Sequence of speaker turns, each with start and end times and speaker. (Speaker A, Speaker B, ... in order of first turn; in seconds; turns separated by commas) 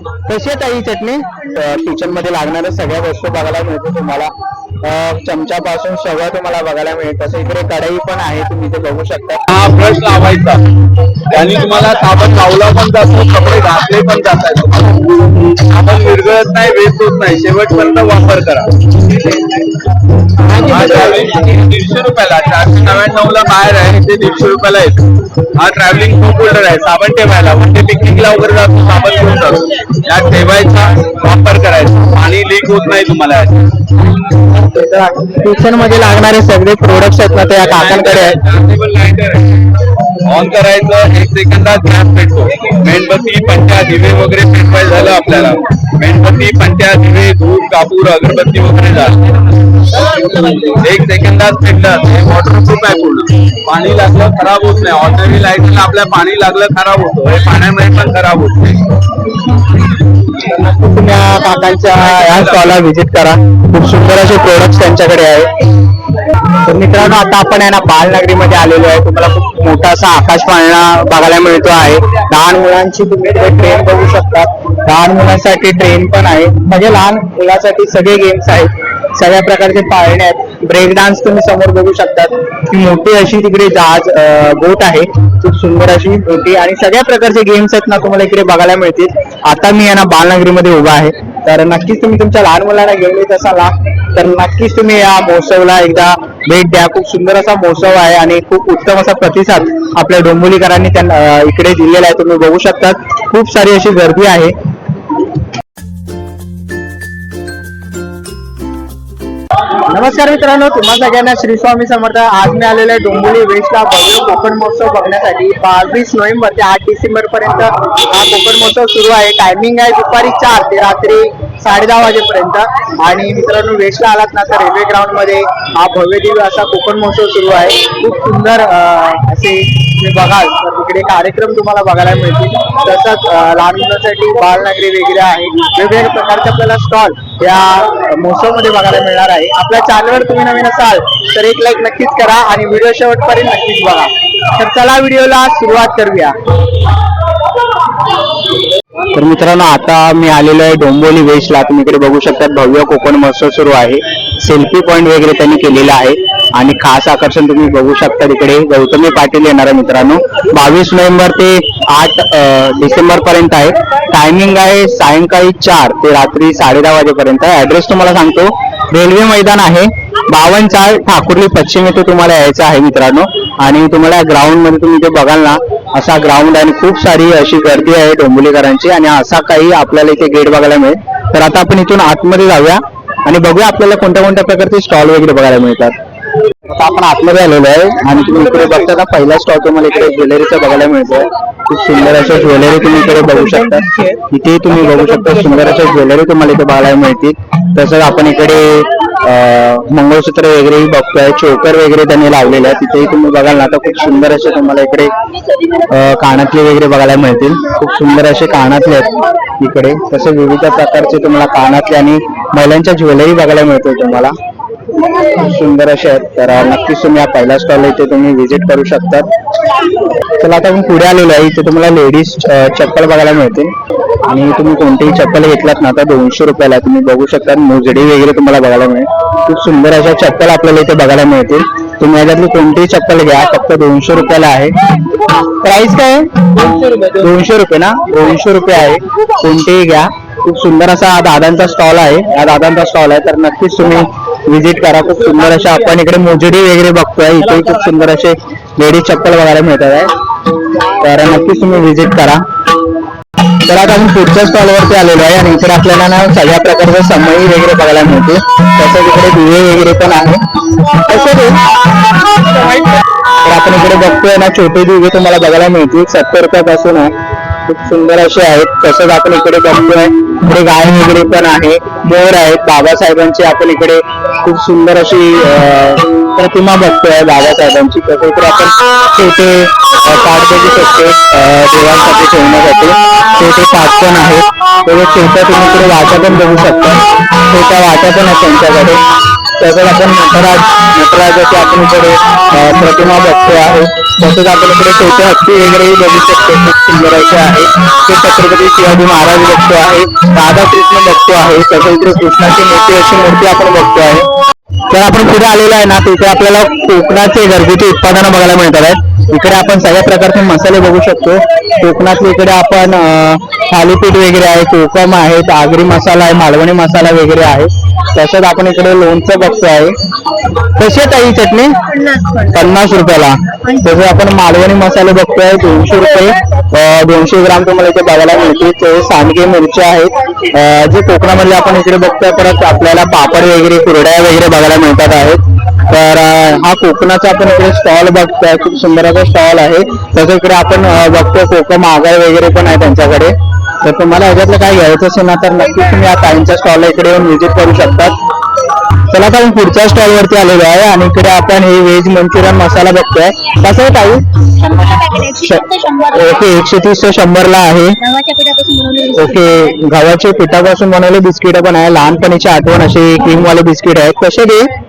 Speaker A: 0.2-9.4, Speaker B: 9.5-10.6, Speaker B: 11.3-19.4, Speaker B: 20.5-33.6, Speaker A: 34.5-38.4, Speaker B: 37.6-59.0, Speaker A: 60.3-65.5, Speaker B: 62.0-62.8, Speaker A: 66.5-104.5, Speaker A: 109.9-146.3, Speaker C: 112.9-113.3, Speaker A: 149.1-185.9, Speaker A: 186.7-205.1, Speaker A: 205.9-214.3, Speaker A: 215.3-219.3, Speaker A: 220.4-234.8, Speaker A: 235.4-250.1, Speaker A: 251.0-252.4, Speaker A: 253.6-260.4, Speaker A: 260.9-261.7, Speaker A: 263.3-267.1, Speaker A: 267.6-304.3, Speaker A: 304.9-319.9, Speaker A: 320.8-348.1, Speaker C: 321.9-322.5, Speaker A: 349.1-354.5, Speaker C: 354.6-356.3, Speaker A: 355.3-358.0, Speaker C: 358.0-359.4, Speaker A: 359.1-364.7